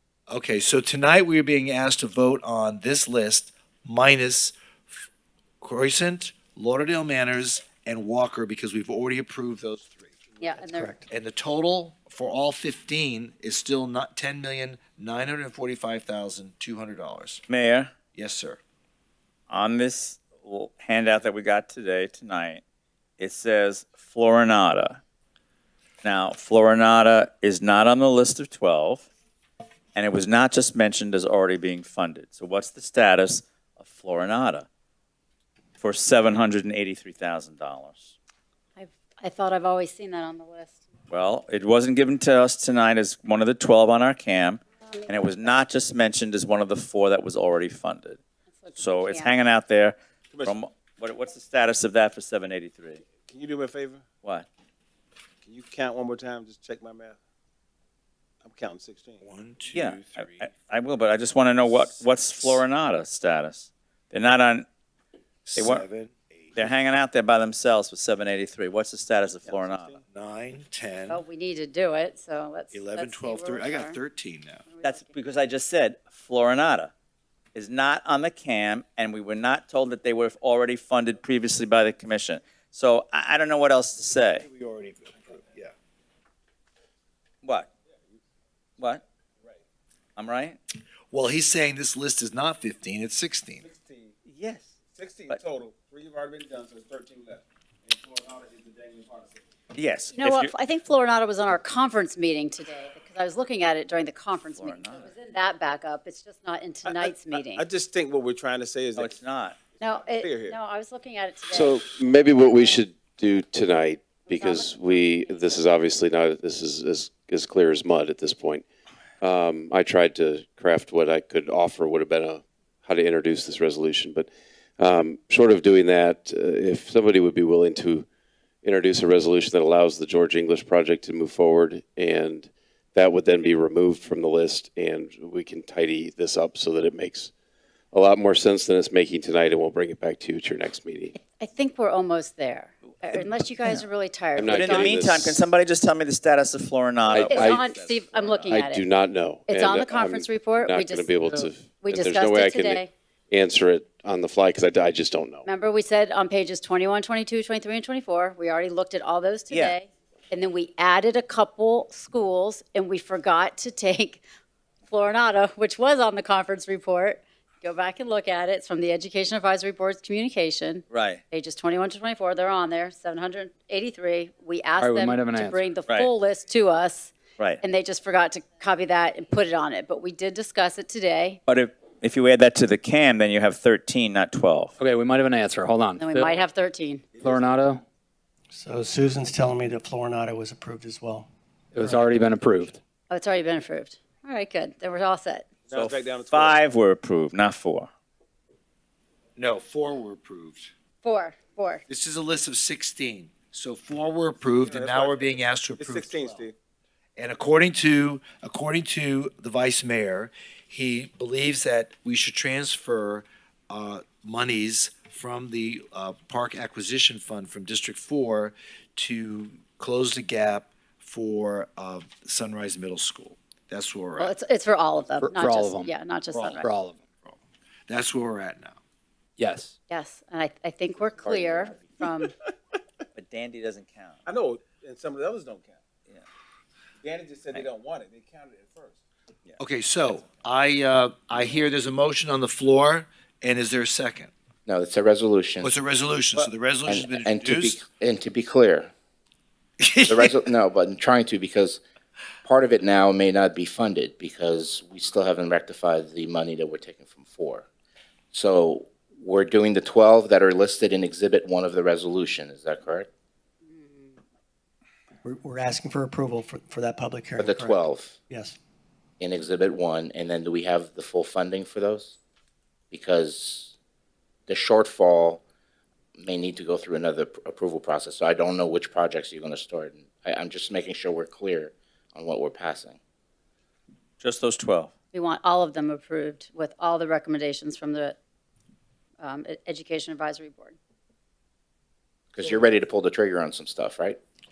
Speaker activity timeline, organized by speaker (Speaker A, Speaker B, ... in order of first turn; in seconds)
Speaker A: 0.3-5.0, 5.6-10.1, 11.1-17.4, 18.1-18.6, 59.2-60.5, 65.5-66.7, 70.1-71.2, 72.7-74.6, 84.4-85.7, 91.1-93.6, 199.4-200.7, 201.9-206.4, 207.2-224.3, 226.3-228.8, 239.6-244.3, 245.6-247.8, 249.8-250.3
Speaker B: 10.4-10.9, 38.8-40.8, 44.8-45.5, 48.6-49.4, 71.1-74.0, 74.7-75.1, 100.2-107.6, 109.8-111.8, 112.4-112.8, 114.3-115.6, 141.4-144.9, 147.3-148.8, 149.5-152.9, 155.4-164.2, 164.9-181.4, 186.0-187.1, 193.1-195.5, 201.0-201.8, 224.2-226.7, 229.9-232.3, 263.7-264.2, 285.1-288.2, 289.2-290.8
Speaker C: 10.4-11.1, 188.5-192.1, 265.2-268.6
Speaker D: 17.5-17.9, 19.5-22.6, 23.2-25.0, 26.0-29.1, 29.9-34.7, 35.8-38.1, 41.1-48.2, 48.8-53.0, 59.7-64.7, 65.6-65.9, 66.6-70.0, 74.8-76.9, 77.5-84.5, 87.4-87.7, 88.8-89.0, 90.2-90.6, 94.3-94.8, 99.8-100.5, 104.5-105.1, 109.0-109.6, 143.1-143.8, 144.4-147.8, 159.5-159.8, 170.9-171.2, 181.5-184.8, 195.7-197.9, 233.2-234.2, 284.2-284.9
Speaker E: 50.3-50.6, 53.1-54.1, 55.4-57.2, 58.4-59.2, 69.4-70.0, 93.6-94.2, 94.9-99.4, 106.9-109.2, 110.0-110.6, 147.6-148.5, 187.1-187.4, 195.7-196.6, 204.4-206.5, 234.3-235.8, 237.0-239.0
Speaker F: 111.5-118.7, 119.2-128.1, 128.6-137.3, 137.9-141.2, 144.4-145.4, 147.1-147.6, 148.5-155.4
Speaker G: 174.8-175.7, 184.8-186.4, 187.2-187.8, 191.8-192.8, 225.2-225.9, 226.6-227.0, 229.4-229.8
Speaker H: 231.2-231.9, 244.7-245.8, 246.9-248.9, 250.1-251.8, 252.4-257.7, 258.3-263.1, 267.4-268.2, 269.2-272.1, 272.9-273.7, 274.5-275.4, 276.2-283.0, 292.3-294.2